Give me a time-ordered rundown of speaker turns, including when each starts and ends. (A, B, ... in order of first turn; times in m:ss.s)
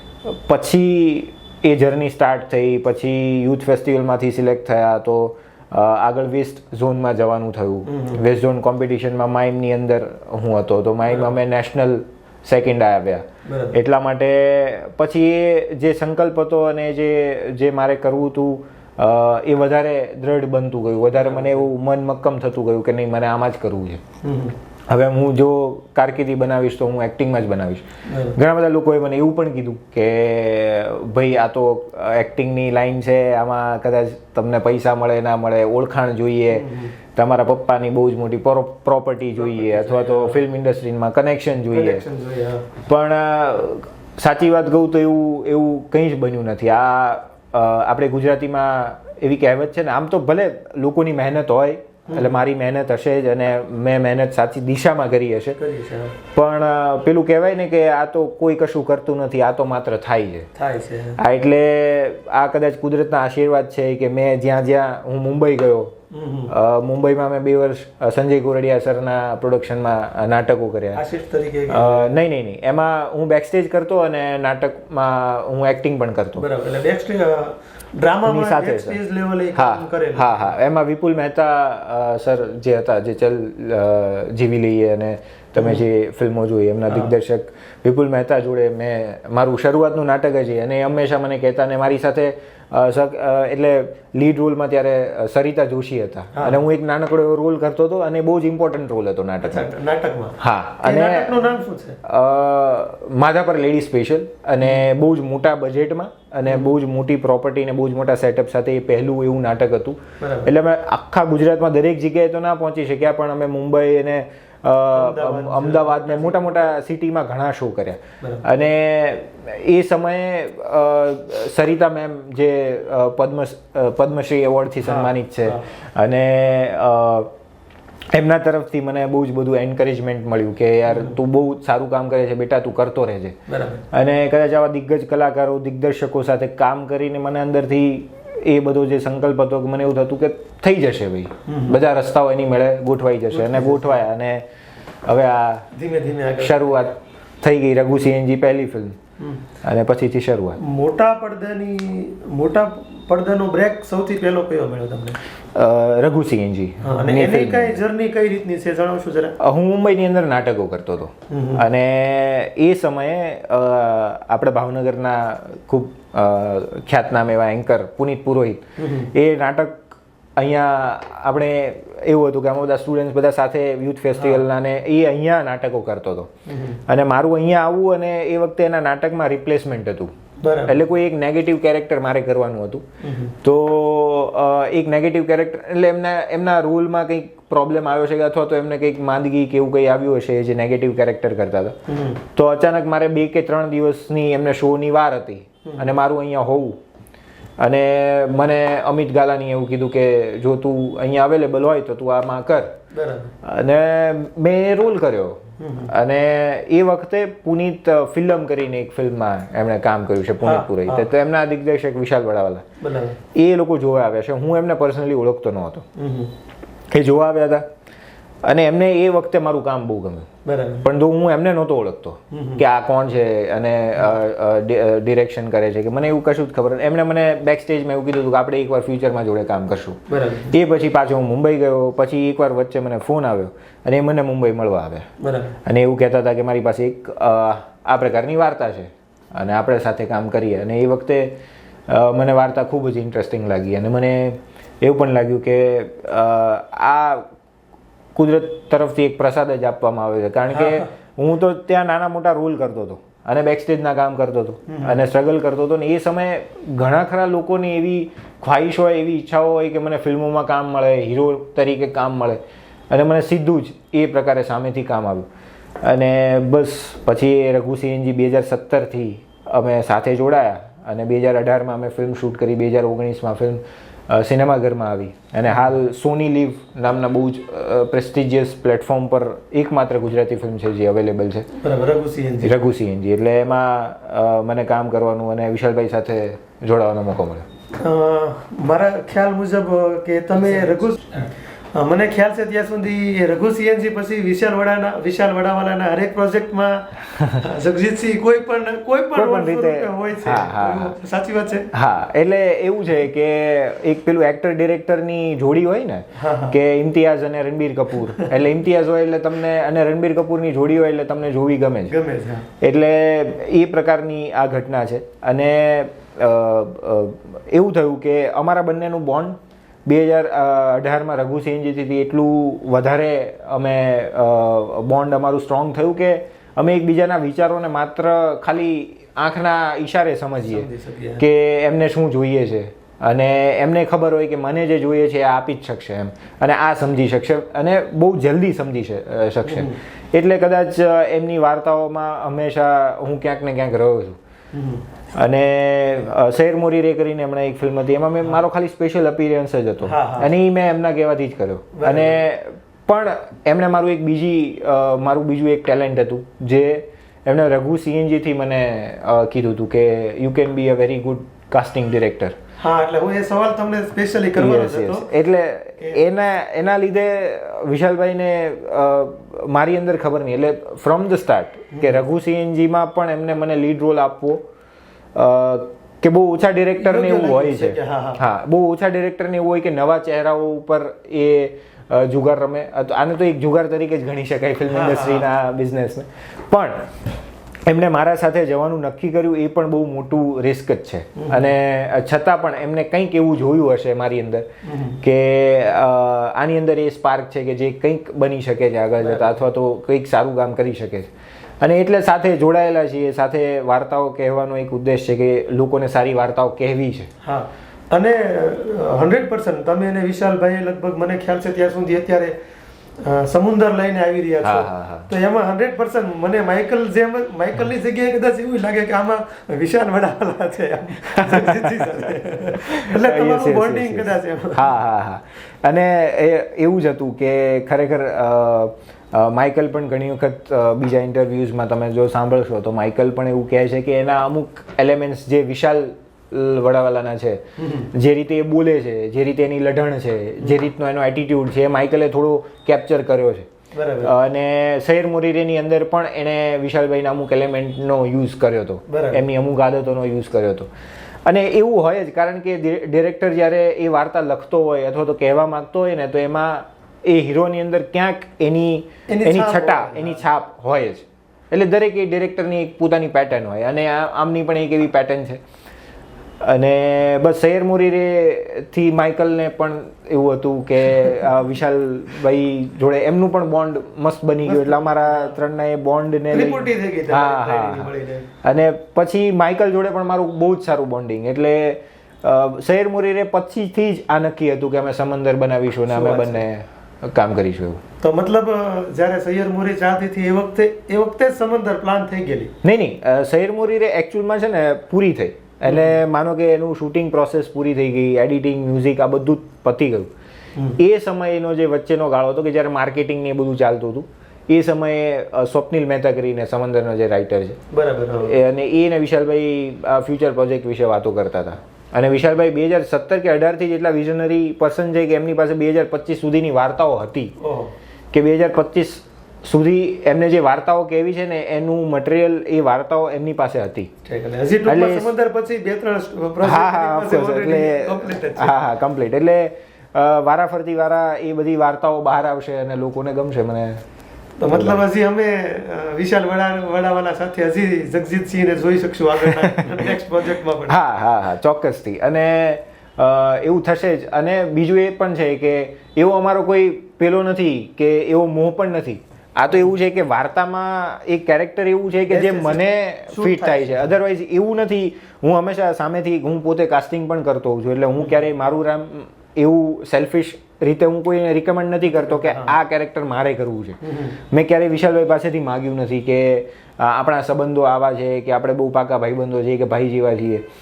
0:00.2-0:24.0 A
0:07.8-0:08.2 B
0:11.1-0:11.3 B
0:13.4-0:13.8 B
0:21.2-0:21.7 B
0:24.2-0:24.6 B
0:24.9-0:42.0 A
0:28.0-0:28.4 B
0:36.5-0:36.9 B
0:39.4-0:40.4 B
0:41.7-0:42.7 B
0:42.8-0:55.6 A
0:52.1-0:52.3 B
0:55.6-0:56.1 B
0:56.3-1:00.5 A
1:00.6-1:01.2 B
1:01.2-1:05.9 A
1:06.1-1:06.5 B
1:06.5-1:11.0 A
1:11.0-1:12.1 B
1:11.7-1:16.4 A
1:16.4-1:20.5 B
1:18.2-1:19.0 A
1:19.5-1:39.7 A
1:25.6-1:25.8 B
1:26.9-1:27.1 B
1:36.3-1:36.6 B
1:39.4-1:42.0 B
1:40.4-1:41.4 A
1:42.0-2:07.3 A
1:44.6-1:44.9 B
1:46.5-1:46.7 B
1:50.2-1:50.5 B
1:54.9-1:56.7 B
1:58.2-1:58.4 B
2:04.8-2:05.6 B
2:08.1-2:13.4 A
2:10.9-2:11.1 B
2:13.5-2:13.8 B
2:13.9-2:24.4 A
2:21.5-2:21.8 B
2:23.3-2:24.0 B
2:25.0-2:25.7 A
2:25.7-2:26.8 B
2:26.4-2:29.0 A
2:29.2-2:29.4 B
2:29.6-2:30.6 A
2:30.6-2:35.2 B
2:35.5-2:37.8 A
2:36.8-2:39.4 B
2:39.4-2:56.3 A
2:41.3-2:41.7 B
2:48.8-2:49.1 B
2:54.2-2:54.4 B
2:56.5-2:56.8 B
2:56.9-3:00.1 A
3:00.4-3:00.8 B
3:00.7-3:02.8 A
3:03.0-3:03.3 B
3:03.4-3:16.8 A
3:11.9-3:12.2 B
3:15.6-3:15.9 B
3:17.6-3:22.8 A
3:22.9-3:23.3 B
3:23.4-3:32.6 A
3:25.6-3:25.9 B
3:30.4-3:31.1 B
3:32.8-3:33.2 B
3:33.3-3:35.8 A
3:36.0-3:36.3 B
3:36.9-3:37.7 A
3:38.4-3:40.3 A
3:40.4-3:40.9 B
3:40.8-3:55.1 A
3:42.3-3:42.6 B
3:50.1-3:50.6 B
3:55.2-3:55.6 B
3:55.6-4:07.3 A
4:08.1-4:25.3 A
4:10.5-4:10.9 B
4:14.7-4:15.0 B
4:25.8-4:41.5 A
4:41.5-4:42.6 B
4:42.4-4:47.4 A
4:47.8-5:01.7 B
4:59.1-5:00.9 A
5:01.7-5:11.9 A
5:06.2-5:06.6 B
5:11.9-5:12.5 B
5:12.6-5:30.7 A
5:30.4-5:31.2 B
5:31.2-5:44.2 A
5:39.4-5:39.8 B
5:44.5-5:44.8 B
5:45.1-6:02.3 A
5:49.8-5:50.3 B
5:51.7-5:52.2 B
6:02.6-6:05.1 B
6:04.4-6:14.4 A
6:11.7-6:12.0 B
6:15.1-6:26.9 A
6:16.8-6:18.2 B
6:24.7-6:25.3 B
6:27.6-6:34.5 A
6:31.2-6:31.5 B
6:34.6-6:35.0 B
6:35.0-6:41.1 A
6:39.0-6:39.4 B
6:41.6-6:47.1 A
6:47.2-6:52.3 B
6:53.0-7:04.7 B
6:54.4-6:55.1 A
7:01.1-7:01.9 A
7:02.6-7:17.4 A
7:17.6-7:17.9 B
7:17.9-7:23.5 A
7:23.7-7:24.1 B
7:24.0-7:30.7 A
7:28.9-7:29.2 B
7:31.2-7:45.4 A
7:39.1-7:40.2 B
7:46.4-7:57.9 A
7:54.4-7:55.3 B
7:56.3-7:58.3 B
7:58.4-8:07.8 A
8:05.9-8:06.4 B
8:08.0-8:12.5 B
8:12.6-8:20.1 A
8:15.6-8:16.0 B
8:20.8-8:27.6 A
8:27.7-8:28.4 B
8:28.2-8:37.4 A
8:37.4-8:37.7 B
8:38.1-8:43.9 A
8:44.0-8:48.5 B
8:44.6-8:45.1 A
8:46.4-8:53.8 A
8:54.4-9:00.8 B
8:54.5-8:54.8 A
8:59.2-9:00.0 A
9:00.7-9:30.4 A
9:12.1-9:13.9 B
9:21.9-9:22.6 B
9:23.8-9:24.2 B